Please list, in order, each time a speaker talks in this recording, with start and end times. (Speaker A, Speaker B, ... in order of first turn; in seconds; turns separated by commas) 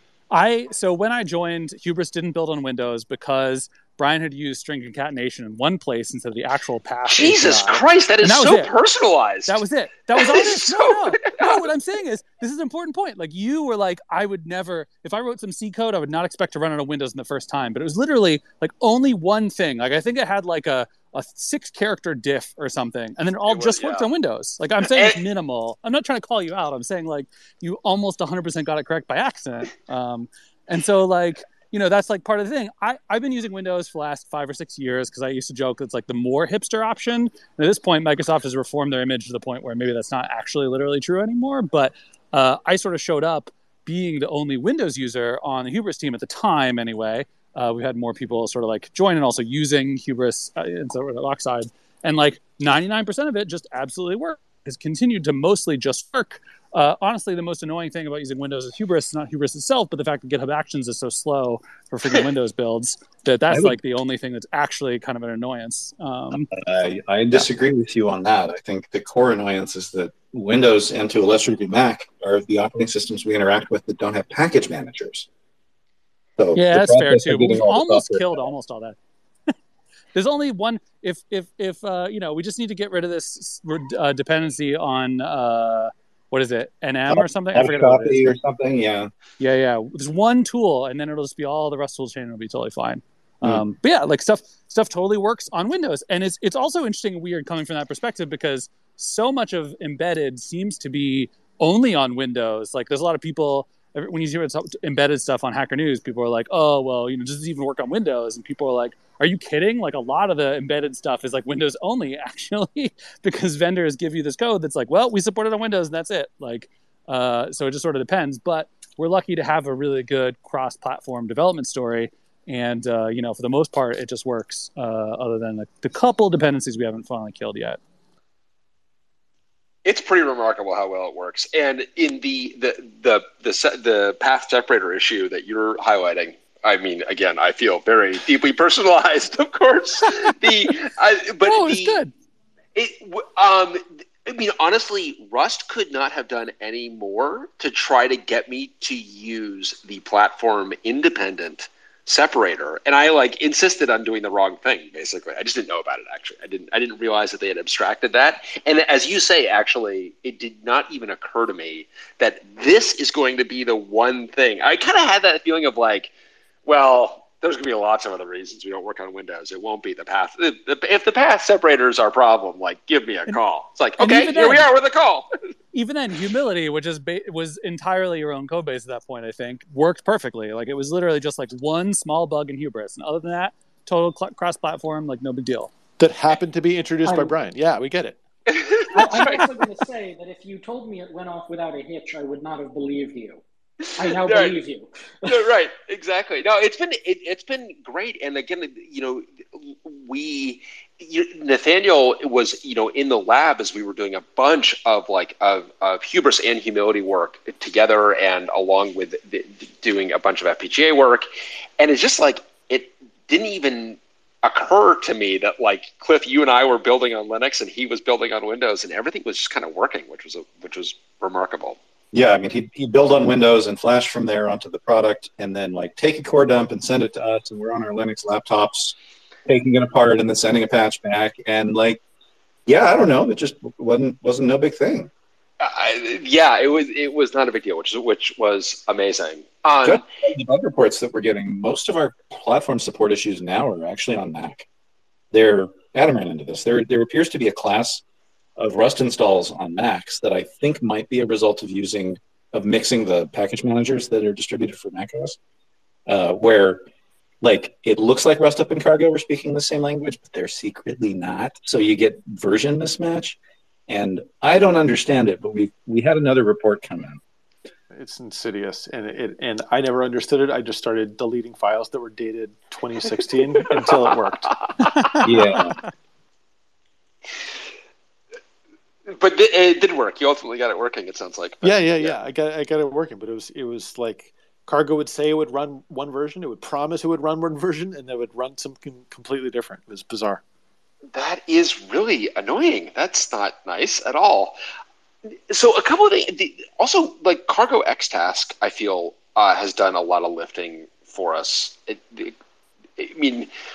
Speaker A: 0.3-8.7, Speaker B: 7.1-9.6, Speaker A: 9.5-66.5, Speaker B: 10.2-11.7, Speaker B: 23.5-24.1, Speaker B: 24.9-25.2, Speaker C: 63.5-63.8, Speaker C: 66.3-75.3, Speaker C: 76.4-78.4, Speaker A: 76.5-79.0, Speaker A: 80.1-88.3, Speaker C: 87.1-89.1, Speaker A: 89.4-127.8, Speaker B: 129.8-142.0, Speaker A: 140.3-140.7, Speaker A: 141.4-142.1, Speaker B: 142.8-166.1, Speaker B: 166.7-175.3, Speaker A: 174.0-174.7, Speaker A: 175.7-185.7, Speaker D: 186.0-188.2, Speaker E: 187.0-187.3, Speaker B: 188.5-189.4, Speaker E: 188.9-193.4, Speaker E: 194.0-195.4, Speaker B: 194.0-194.6, Speaker B: 195.3-211.3, Speaker B: 211.8-221.8, Speaker C: 222.1-232.0, Speaker C: 232.7-235.1, Speaker B: 235.6-240.0, Speaker C: 239.8-244.7, Speaker C: 245.3-248.0, Speaker C: 248.6-255.4, Speaker C: 256.1-256.8, Speaker C: 257.4-267.2, Speaker D: 267.9-274.5, Speaker B: 273.7-275.0, Speaker C: 275.2-275.8, Speaker B: 279.1-282.2, Speaker D: 281.6-290.4, Speaker B: 291.1-294.6, Speaker B: 295.5-302.4, Speaker B: 303.0-303.5